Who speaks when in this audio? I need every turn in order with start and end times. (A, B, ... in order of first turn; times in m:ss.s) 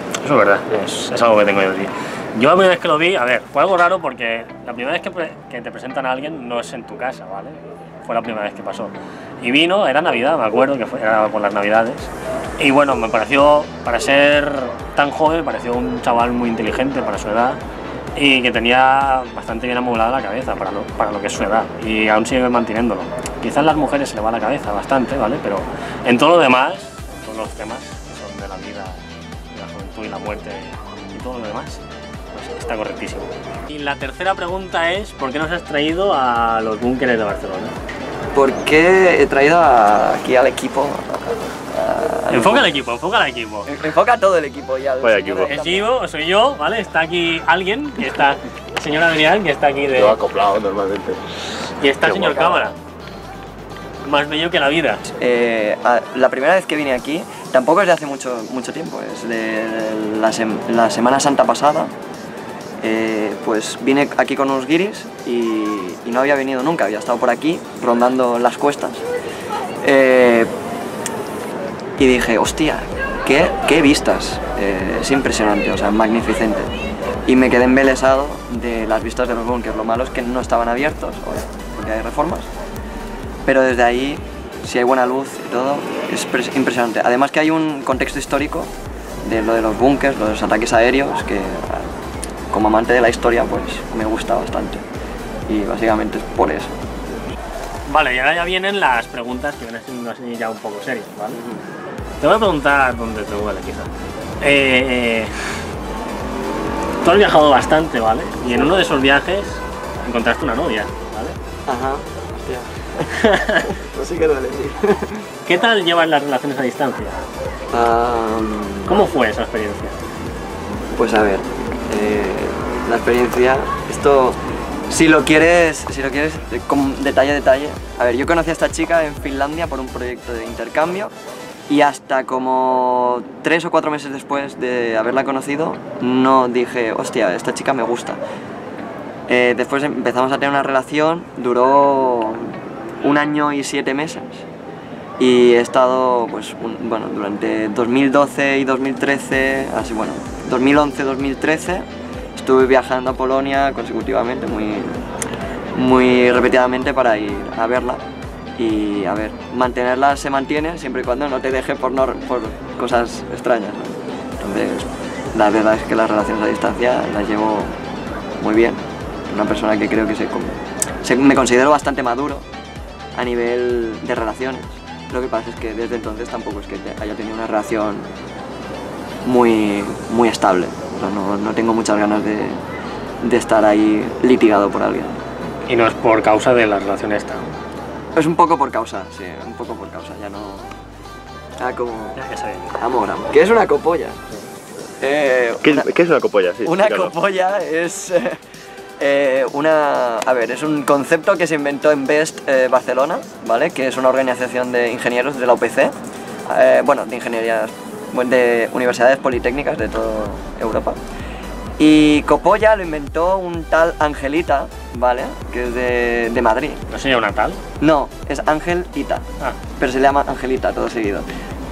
0:00.2-0:17.6 A
0:18.1-0:37.7 A
0:38.3-0:42.7 B
0:42.3-0:43.7 A
0:43.6-0:45.9 B
0:45.0-0:45.6 C
0:45.5-0:50.2 A
0:50.0-0:51.2 C
0:51.8-0:52.8 A
0:52.0-0:52.5 C
0:54.0-0:55.0 A
0:55.1-1:01.9 B
1:02.8-1:09.0 B
1:09.8-1:10.5 B
1:12.0-1:16.7 B
1:17.2-1:22.5 B
1:23.4-1:28.7 B
1:29.2-1:31.9 B
1:32.5-1:34.8 B
1:35.5-1:36.7 B
1:37.9-1:41.4 A
1:41.3-1:41.7 B
1:42.2-1:43.9 A
1:44.4-1:45.4 A
1:47.0-1:51.4 A
1:48.5-1:48.8 B
1:51.7-1:53.1 B
1:53.1-1:53.7 A
1:53.6-1:55.2 B
1:55.4-1:57.2 A
1:57.7-1:59.0 B
1:58.8-1:59.9 A
2:01.0-2:11.1 B
2:11.7-2:18.2 B
2:19.3-2:24.4 B
2:25.2-2:35.0 B
2:35.7-2:38.0 B
2:38.6-2:47.8 B
2:48.4-2:52.4 B
2:53.1-2:58.1 B
2:59.2-3:02.6 B
3:03.2-3:05.2 B
3:05.7-3:07.5 A
3:08.2-3:10.7 B
3:11.6-3:12.2 B
3:12.2-3:12.8 A
3:12.7-3:14.2 B
3:15.0-3:15.9 B
3:15.6-3:17.1 C
3:16.6-3:18.4 B
3:19.0-3:25.9 B
3:26.5-3:31.0 B
3:31.8-3:36.8 B
3:36.9-3:37.6 A
3:37.8-3:39.2 B
3:39.8-3:41.2 B